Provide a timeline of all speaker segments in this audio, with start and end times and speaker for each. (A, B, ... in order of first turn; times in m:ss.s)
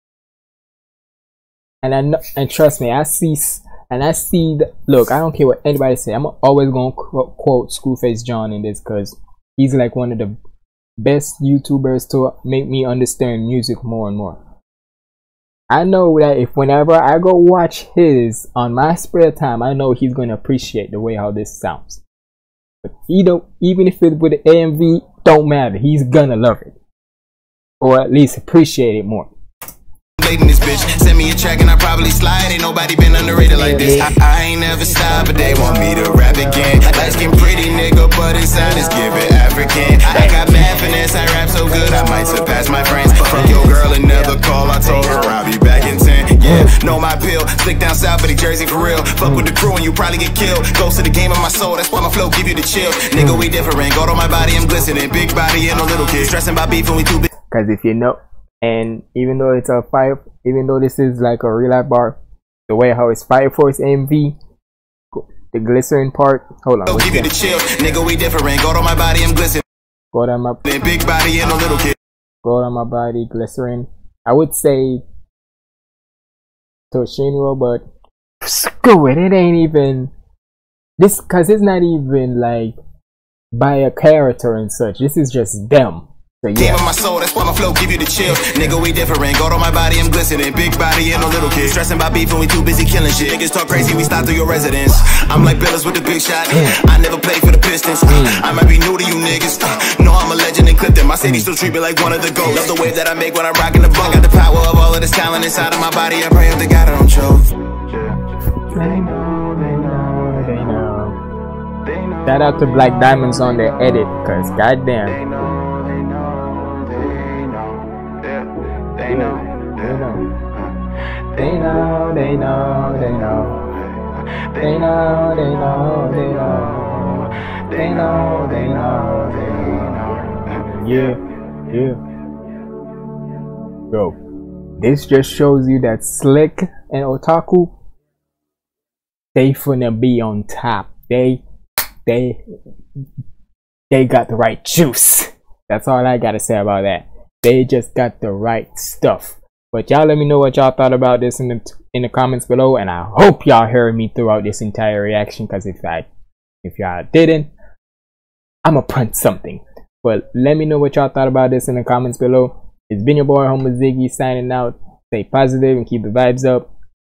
0:01.8-0:10.4 A
0:11.0-0:14.4 A
0:15.7-0:22.0 A
0:22.8-0:26.7 A
0:27.8-0:29.3 A
0:30.2-0:57.3 B
0:33.7-0:34.1 A
0:40.1-0:40.5 A
0:57.5-1:04.4 A
1:05.1-1:07.3 A
1:06.9-1:09.6 B
1:10.1-1:10.6 A
1:10.6-1:12.0 B
1:12.4-1:15.0 A
1:16.9-1:17.8 A
1:18.4-1:20.1 A
1:21.0-1:22.8 A
1:23.5-1:26.8 A
1:26.6-1:48.2 B
1:38.1-1:38.4 A
1:48.7-1:51.2 A
1:48.7-1:50.7 B
1:51.8-1:52.3 B
1:52.2-1:55.2 A
1:55.1-2:00.5 B
1:59.0-2:00.3 A
2:01.4-2:03.6 A
2:03.8-2:04.8 B
2:04.6-2:12.0 A
2:07.7-2:10.5 B
2:13.9-2:14.2 A
2:14.8-2:17.7 A
2:19.3-2:21.4 A
2:22.0-2:22.4 A
2:23.9-2:36.1 A
2:36.6-2:37.5 A
2:38.6-2:46.7 A